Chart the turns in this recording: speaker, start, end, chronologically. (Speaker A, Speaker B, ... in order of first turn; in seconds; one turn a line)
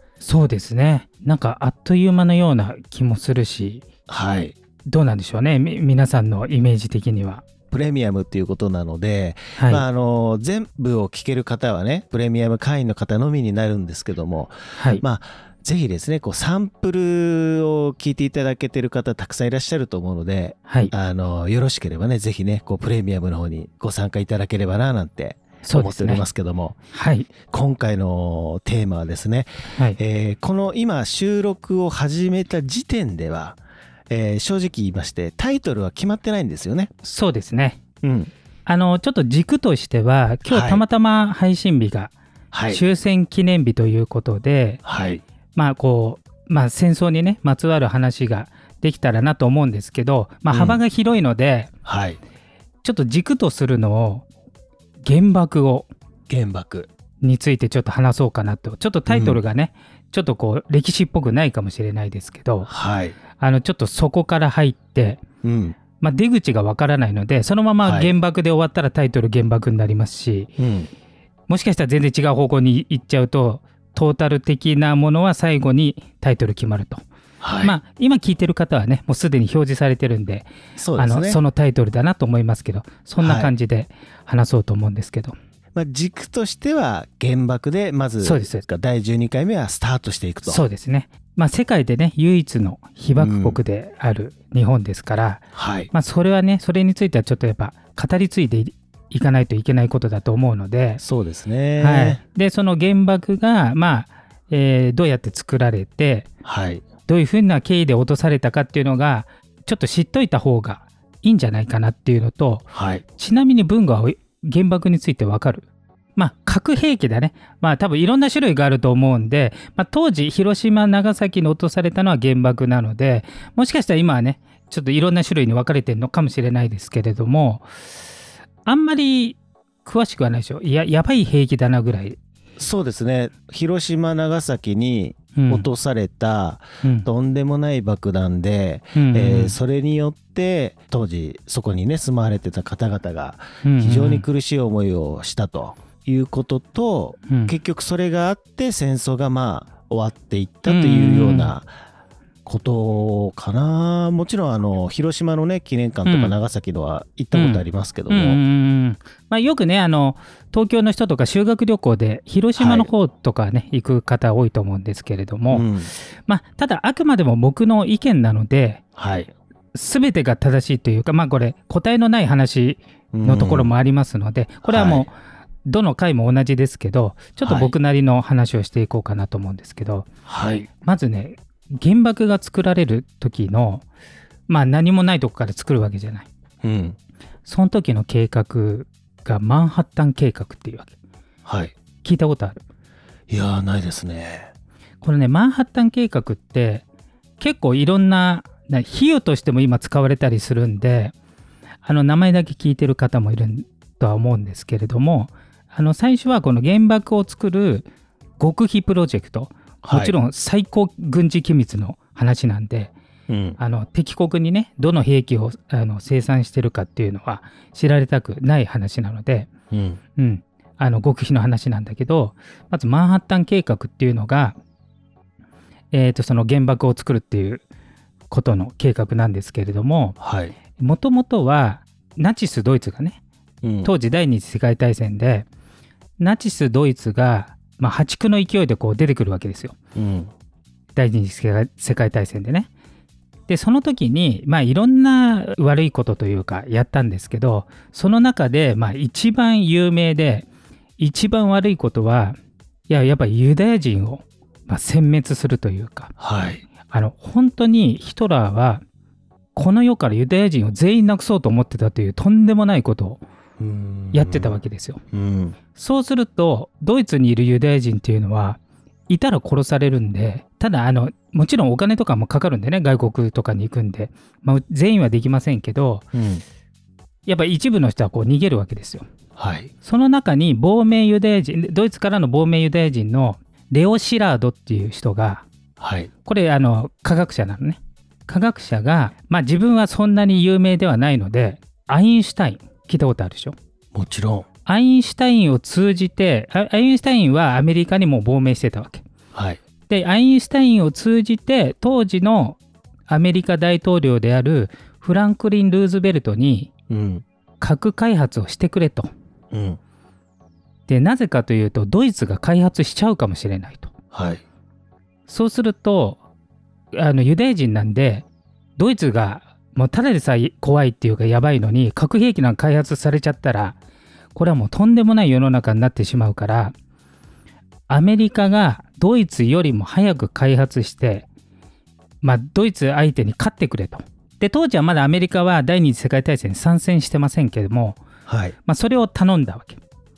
Speaker A: 0.2-3.8
Speaker B: 4.1-4.5
Speaker A: 4.9-7.4
Speaker B: 7.7-26.8
Speaker A: 9.6-9.8
Speaker A: 14.8-15.0
Speaker A: 25.6-26.2
Speaker A: 26.9-27.3
Speaker B: 27.5-33.6
Speaker B: 34.1-36.9
Speaker A: 37.0-37.8
Speaker B: 38.0-38.3
Speaker A: 38.6-42.1
Speaker B: 40.5-40.8
Speaker B: 42.5-42.8
Speaker A: 42.7-44.8
Speaker B: 44.8-45.2
Speaker A: 45.5-51.7
Speaker B: 50.5-50.8
Speaker B: 51.8-52.2
Speaker A: 52.8-54.2
Speaker A: 55.0-55.9
Speaker B: 56.3-56.9
Speaker A: 57.2-62.7
Speaker B: 59.1-59.4
Speaker B: 62.7-63.1
Speaker A: 63.4-65.2
Speaker B: 65.4-65.8
Speaker A: 66.0-70.5
Speaker B: 67.8-68.2
Speaker B: 70.6-70.9
Speaker A: 71.5-77.0
Speaker B: 77.4-77.8
Speaker A: 77.6-85.3
Speaker B: 80.8-81.4
Speaker B: 83.2-83.5
Speaker B: 85.7-90.6
Speaker A: 88.2-88.6
Speaker A: 90.4-101.0
Speaker B: 93.2-93.6
Speaker B: 95.5-95.9
Speaker B: 101.0-102.2
Speaker A: 101.8-106.3
Speaker B: 106.4-106.8
Speaker A: 107.1-127.7
Speaker B: 112.7-113.0
Speaker A: 128.6-132.2
Speaker B: 132.6-151.7
Speaker A: 135.3-135.7
Speaker A: 136.8-137.1
Speaker A: 138.9-139.6
Speaker A: 143.6-144.2
Speaker A: 147.3-147.5
Speaker A: 150.7-151.5
Speaker B: 152.4-158.4
Speaker A: 156.1-156.3
Speaker A: 157.3-165.7
Speaker B: 162.6-162.9
Speaker B: 165.5-165.9
Speaker A: 166.2-168.8
Speaker B: 169.0-169.3
Speaker A: 169.7-175.1
Speaker B: 173.1-173.7
Speaker B: 174.6-175.1
Speaker A: 175.7-180.1
Speaker B: 177.4-177.7
Speaker B: 180.3-180.7
Speaker A: 180.8-183.8
Speaker A: 184.5-186.3
Speaker B: 186.6-187.0
Speaker A: 187.4-190.9
Speaker B: 191.4-191.7
Speaker A: 192.0-192.6
Speaker B: 193.3-194.5
Speaker A: 195.0-196.8
Speaker A: 197.4-201.1
Speaker A: 201.8-207.9
Speaker A: 208.4-212.9
Speaker B: 209.8-210.1
Speaker B: 213.3-213.6
Speaker A: 213.6-219.5
Speaker B: 219.7-220.0
Speaker A: 220.2-224.6
Speaker A: 225.9-227.6
Speaker A: 228.3-230.2
Speaker B: 230.2-230.5
Speaker A: 230.8-233.2
Speaker B: 233.6-233.9
Speaker A: 233.8-235.5
Speaker A: 236.2-239.7
Speaker B: 239.9-240.3
Speaker A: 240.9-242.7
Speaker A: 243.5-250.5
Speaker A: 251.0-252.4
Speaker A: 252.9-256.1
Speaker B: 256.2-256.6
Speaker A: 256.8-258.8
Speaker A: 259.5-263.2
Speaker B: 263.6-265.6
Speaker A: 264.1-265.0
Speaker A: 265.7-276.1
Speaker B: 276.1-276.4
Speaker A: 277.2-279.0
Speaker B: 279.4-279.7
Speaker A: 279.8-285.4
Speaker B: 285.8-286.1
Speaker A: 286.2-293.5
Speaker B: 293.9-294.4
Speaker A: 294.6-299.0
Speaker B: 299.3-299.6
Speaker A: 299.9-306.7
Speaker B: 306.9-307.2
Speaker A: 307.6-309.1
Speaker B: 309.5-309.8
Speaker A: 310.9-313.9
Speaker B: 314.1-314.4
Speaker A: 315.3-316.2
Speaker A: 316.9-318.2
Speaker A: 318.8-323.8
Speaker A: 324.3-326.7
Speaker A: 327.9-331.3
Speaker A: 332.2-338.0
Speaker B: 338.3-338.5
Speaker A: 338.7-339.8